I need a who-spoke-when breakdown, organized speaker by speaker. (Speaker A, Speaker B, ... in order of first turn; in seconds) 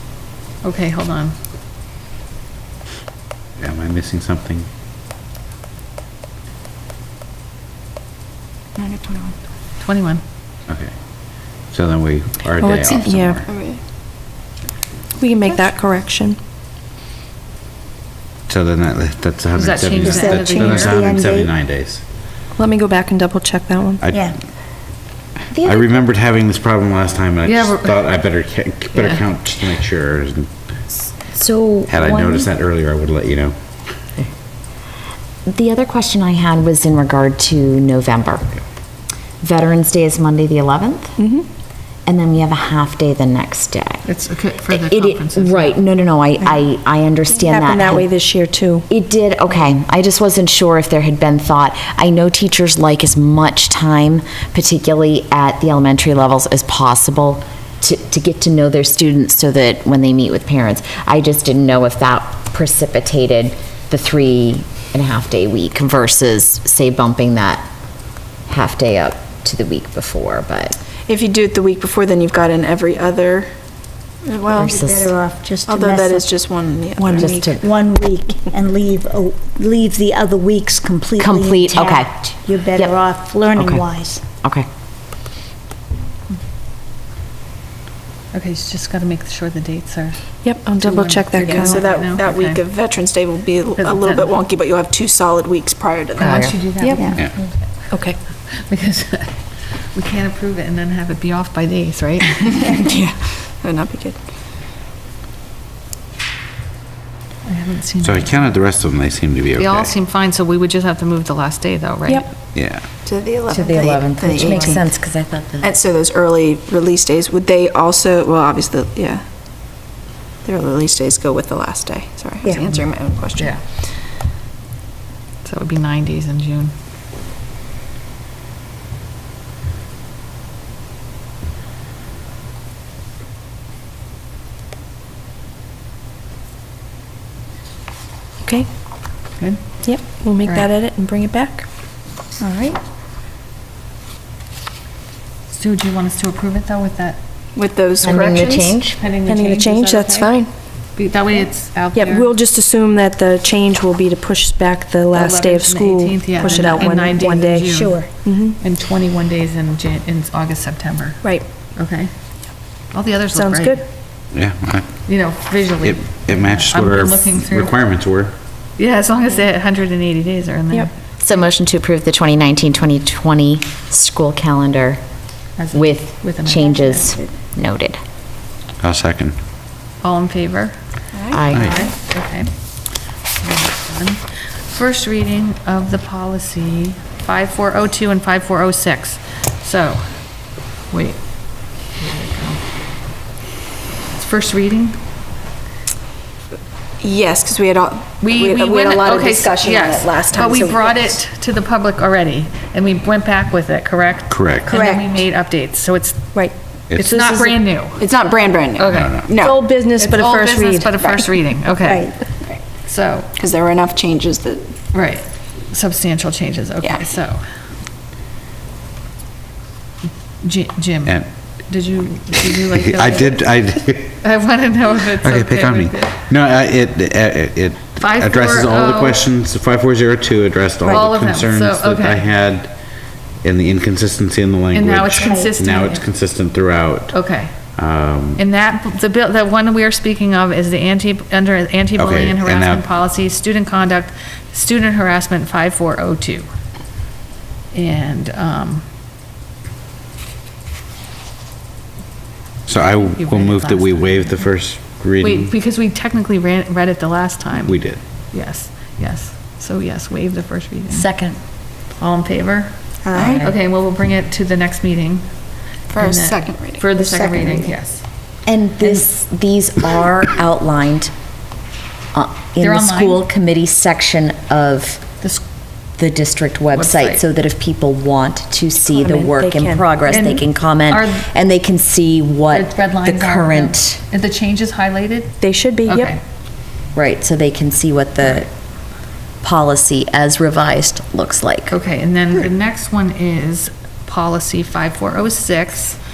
Speaker A: 0.6-1.4, 9.8-10.2, 19.5-21.0, 27.5-28.0, 28.9-29.2, 44.0-45.8, 88.3-92.6, 93.8-94.3, 96.2-102.7, 107.5-108.6, 109.6-112.3, 114.2-114.8, 122.5-122.8, 123.3-123.6, 125.4-126.7, 140.4-140.7, 145.5-147.2, 149.0-150.3, 151.0-152.3, 155.1-158.1, 158.6-162.1, 162.9-163.8, 165.1-167.8, 168.8-170.9, 175.6-177.2, 180.0-180.8, 181.5-182.5, 183.4-190.1, 190.9-191.2, 191.9-192.6, 194.1-195.0, 198.2-206.3, 206.9-208.0, 208.8-212.2, 212.8-213.3, 214.9-217.4, 220.4-223.5, 224.2-226.2, 228.0-229.2, 230.9-232.3, 234.7-236.1, 237.1-237.5, 238.4-246.5, 247.7-248.8, 253.0-254.5, 255.2-261.1, 262.0-262.7, 263.4-265.3, 265.9-268.0, 272.6-273.3, 276.7-277.2, 280.1-281.3, 282.5-286.2, 291.7-296.0
Speaker B: 3.6-4.7, 10.7-10.9, 11.7-13.4, 18.5-22.0, 24.0-24.3, 25.6-30.5, 31.9-33.5, 108.0-109.9, 112.5-112.8, 164.3-164.9, 165.8-168.3, 178.8-179.4, 181.5-181.8, 204.3-204.8, 206.9-207.2, 208.9-209.3, 222.7-224.2, 225.2-232.7, 233.4-237.2, 237.8-238.4, 242.0-242.9, 252.7-255.5, 257.5-258.0
Speaker C: 8.8-9.3, 12.9-13.8, 71.1-73.5, 74.2-74.8, 75.7-77.4, 91.4-96.4, 102.6-104.2, 113.0-114.9, 115.6-119.2, 120.4-123.6, 147.6-148.8, 181.1-181.5, 197.0-201.2, 208.0-209.7, 211.0-211.3, 213.3-214.7, 263.1-263.5, 265.9-267.5
Speaker D: 12.6-13.4, 15.2-16.4, 22.5-24.0, 41.2-41.5, 47.3-48.9, 77.2-77.5, 90.4-91.9, 96.8-97.1, 97.9-98.2, 138.4-138.7, 139.8-141.7, 142.4-142.8, 149.2-150.5, 151.9-158.6, 163.3-163.8, 206.3-207.6, 209.3-211.1, 278.9-280.3, 285.4-286.1
Speaker E: 20.0-21.5, 74.5-76.3, 77.0-84.2, 157.7-158.1, 204.7-205.0, 211.8-212.1, 235.2-235.5, 263.1-263.5
Speaker F: 25.5-26.0, 31.3-32.5, 35.5-38.5, 39.4-41.2, 42.1-44.0, 44.7-48.1, 48.9-67.7, 68.5-70.8, 74.6-75.1, 77.2-77.7, 81.2-82.2, 83.6-83.9, 84.4-84.7, 96.2-96.6, 113.5-115.7, 148.0-149.0, 171.2-175.0, 175.7-178.0, 181.3-181.8, 260.9-261.4, 268.5-271.1, 272.1-275.0, 276.0-284.0, 286.9-288.5, 289.4-291.8